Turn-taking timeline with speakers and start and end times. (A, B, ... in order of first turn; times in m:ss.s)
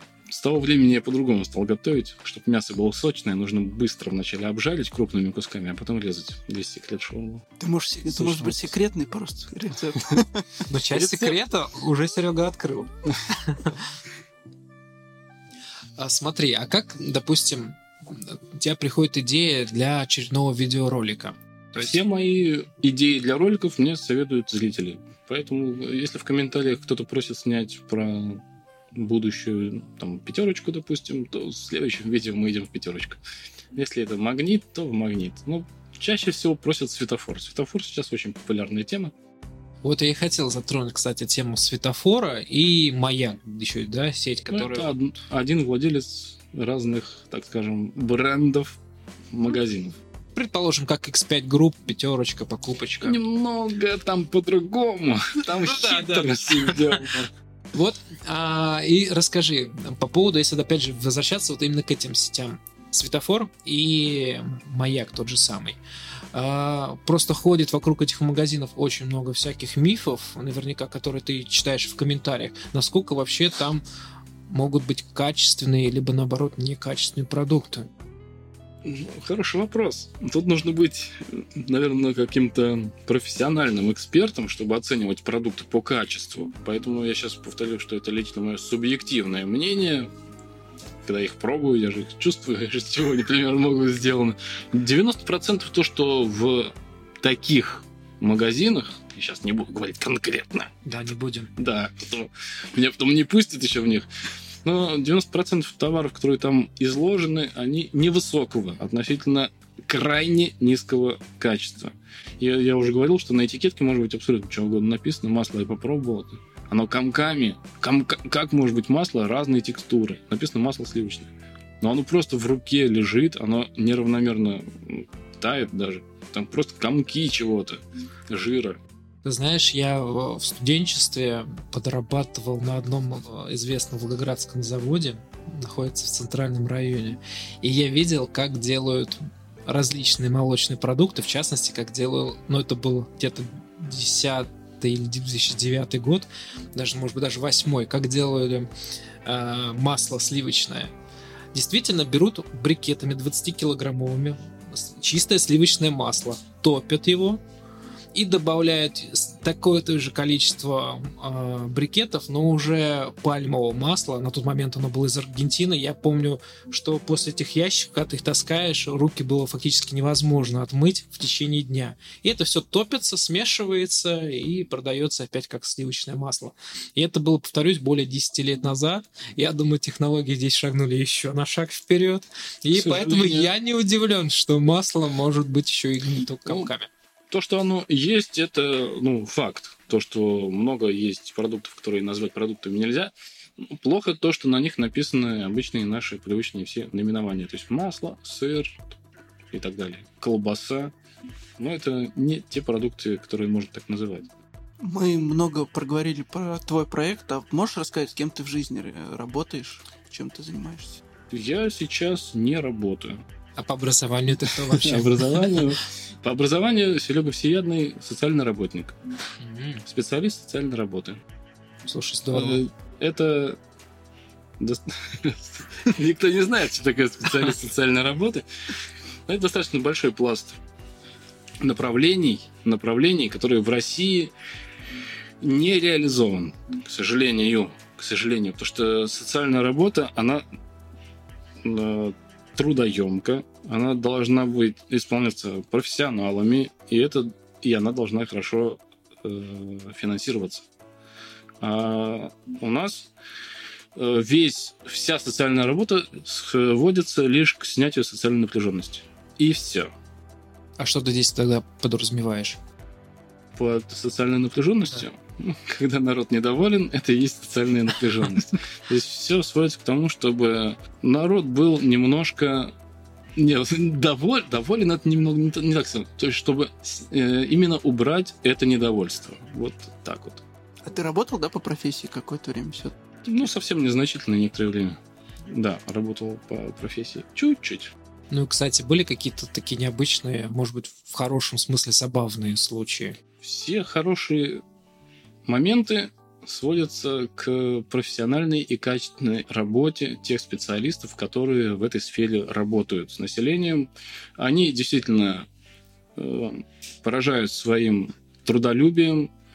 0:00.3-0:07.4 A
0:07.6-0:11.3 B
0:08.1-0:08.7 A
0:10.7-0:13.8 C
0:16.0-0:22.0 C
0:21.8-0:28.4 A
0:28.9-0:33.2 A
0:33.7-0:39.1 A
0:39.8-0:44.9 C
0:44.5-0:48.8 A
0:49.3-0:50.0 A
0:50.3-0:53.2 C
0:53.0-0:57.3 A
0:55.5-0:57.1 C
0:57.7-1:05.8 C
1:06.3-1:13.8 C
1:14.5-1:17.9 C
1:18.8-1:30.1 A
1:31.0-1:40.7 A
1:40.8-1:41.5 C
1:41.6-1:44.1 A
1:44.6-2:01.3 A
2:01.8-2:08.8 A
2:09.2-2:28.7 C
2:29.2-2:30.9 C
2:31.5-2:37.4 C
2:38.1-3:06.9 C
3:02.7-3:03.5 A
3:07.3-3:18.9 A
3:19.5-3:20.9 A
3:21.6-3:24.3 A
3:24.8-3:31.0 B
3:31.3-3:33.2 A
3:33.6-3:35.7 C
3:34.4-3:39.0 A
3:39.4-3:39.8 C
3:39.8-3:41.2 A
3:41.8-3:42.6 C
3:42.3-3:43.6 A
3:44.6-3:48.4 A
3:49.3-3:50.6 A
3:51.6-3:54.3 A
3:55.4-4:00.4 A
4:01.6-4:10.6 A
4:11.6-4:13.1 A
4:13.9-4:19.9 A
4:20.8-4:22.6 C
4:23.6-4:32.7 A
4:33.4-4:40.4 A
4:40.8-4:43.0 B
4:43.2-4:47.9 A
4:48.3-4:53.2 C
4:53.4-4:54.6 A
4:55.5-5:05.5 A
5:06.2-5:09.3 A